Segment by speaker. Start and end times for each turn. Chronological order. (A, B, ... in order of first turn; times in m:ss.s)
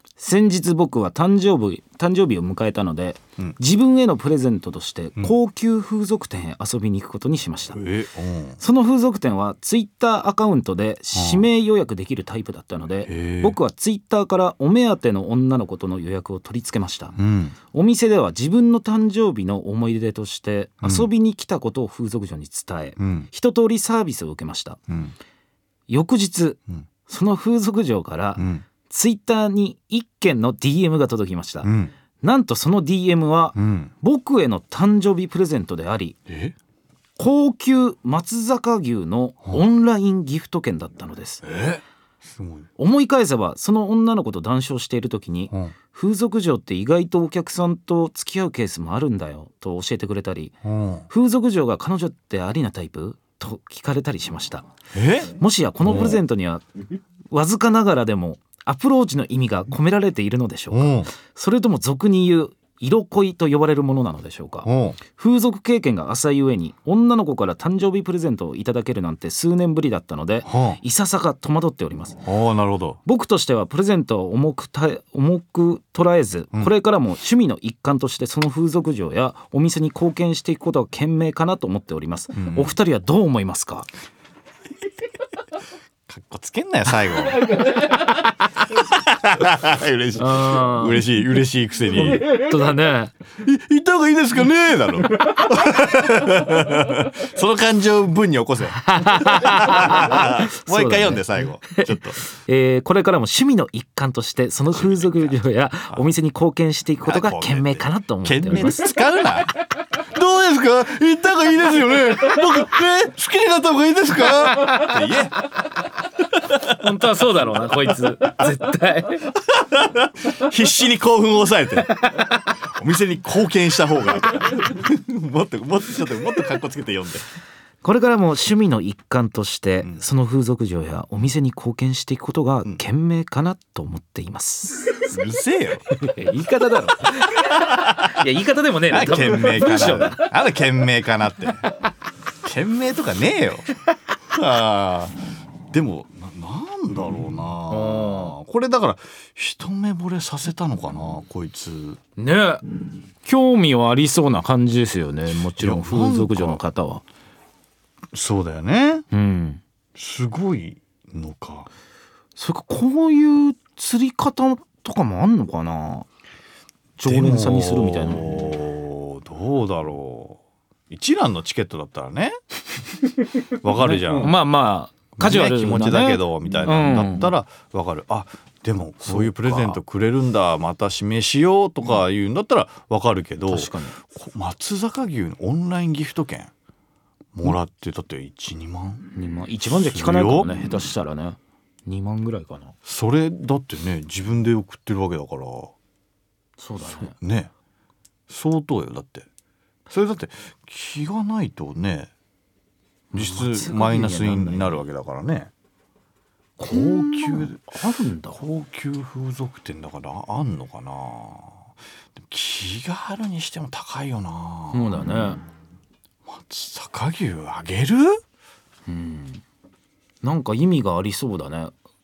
0:00.2-0:07.8 A
0:07.7-0:08.6 B
0:08.6-0:17.2 A
0:11.1-0:11.5 B
0:13.1-0:13.6 B
0:17.2-0:17.6 B
0:17.7-0:24.8 A
0:20.8-0:21.1 B
0:23.0-0:23.3 B
0:24.9-0:25.1 B
0:25.9-0:36.2 A
0:28.4-0:28.6 B
0:31.6-0:31.9 B
0:33.6-0:33.9 B
0:36.3-0:36.6 B
0:37.2-0:41.4 A
0:41.4-0:42.7 B
0:42.8-0:50.6 A
0:50.6-0:51.1 B
0:51.1-0:54.7 A
0:54.9-0:55.3 B
0:55.3-0:56.7 A
0:55.8-0:56.2 B
0:57.3-1:12.2 A
1:00.7-1:01.1 B
1:04.6-1:05.0 B
1:10.4-1:10.8 B
1:12.2-1:13.0 B
1:13.0-1:23.9 A
1:22.4-1:22.8 B
1:26.1-1:27.9 B
1:27.6-1:28.2 A
1:28.6-1:32.4 B
1:30.2-1:31.0 A
1:32.0-1:33.1 A
1:33.4-1:42.2 B
1:38.7-1:49.0 A
1:44.8-1:45.3 B
1:47.0-1:55.4 B
1:54.6-1:54.9 A
1:56.3-1:56.8 B
1:56.6-1:59.3 A
1:59.4-2:07.3 B
2:07.8-2:15.1 A
2:15.1-2:15.8 B
2:15.9-2:20.3 A
2:17.5-2:18.2 B
2:18.9-2:21.7 B
2:22.4-2:25.2 B
2:25.7-2:32.0 B
2:27.7-2:28.4 A
2:32.2-2:32.7 A
2:33.2-2:37.0 A
2:35.6-2:36.6 B
2:38.1-2:39.1 B
2:39.1-2:39.6 A
2:40.0-2:41.7 B
2:42.4-2:46.1 A
2:47.0-2:48.3 A
2:47.0-2:52.4 B
2:53.5-2:54.4 B
2:53.8-2:57.3 A
2:55.2-3:06.5 B
2:59.0-2:59.8 A
3:03.5-3:04.0 A
3:07.3-3:09.1 B
3:09.1-3:12.8 A
3:09.7-3:10.9 B
3:12.9-3:15.7 B
3:16.6-3:17.1 A
3:16.8-3:17.5 B
3:18.3-3:19.3 B
3:19.9-3:22.1 B
3:23.1-3:24.8 A
3:23.1-3:25.5 B
3:26.6-3:28.4 A
3:26.7-3:27.6 B
3:28.4-3:35.1 B
3:34.7-3:35.4 A
3:36.2-3:38.2 B
3:38.9-3:39.4 A
3:40.2-3:41.7 A